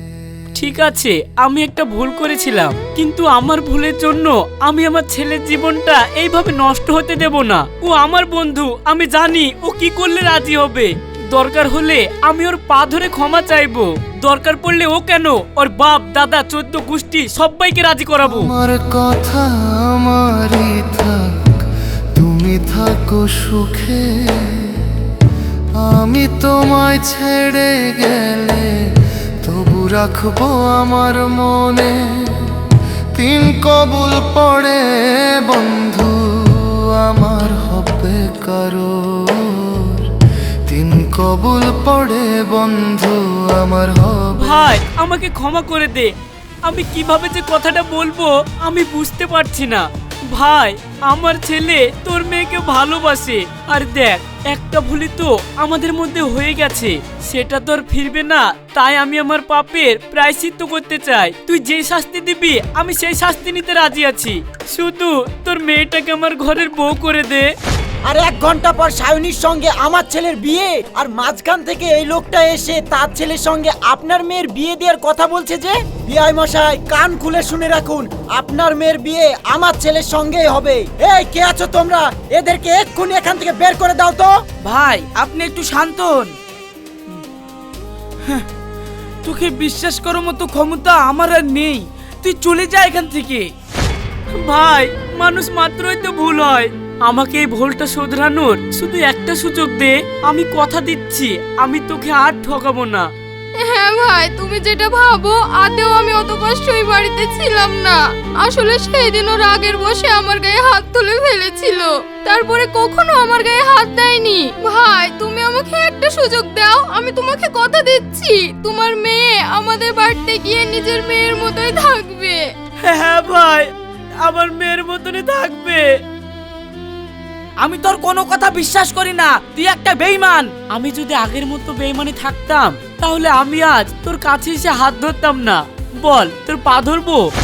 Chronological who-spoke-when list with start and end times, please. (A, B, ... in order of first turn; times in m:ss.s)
0:00.6-0:18.5 A
0:18.3-0:21.2 B
0:22.2-0:24.8 B
0:25.8-0:28.7 B
0:29.4-0:32.4 B
0:33.2-0:34.8 B
0:35.5-0:40.1 B
0:40.7-0:44.6 B
0:44.4-1:07.5 A
1:08.1-1:24.3 C
1:24.6-1:26.3 D
1:29.2-1:33.5 D
1:34.3-1:43.1 A
1:43.6-2:02.4 E
2:02.8-2:05.9 A
2:07.6-2:10.6 D
2:10.6-2:17.3 A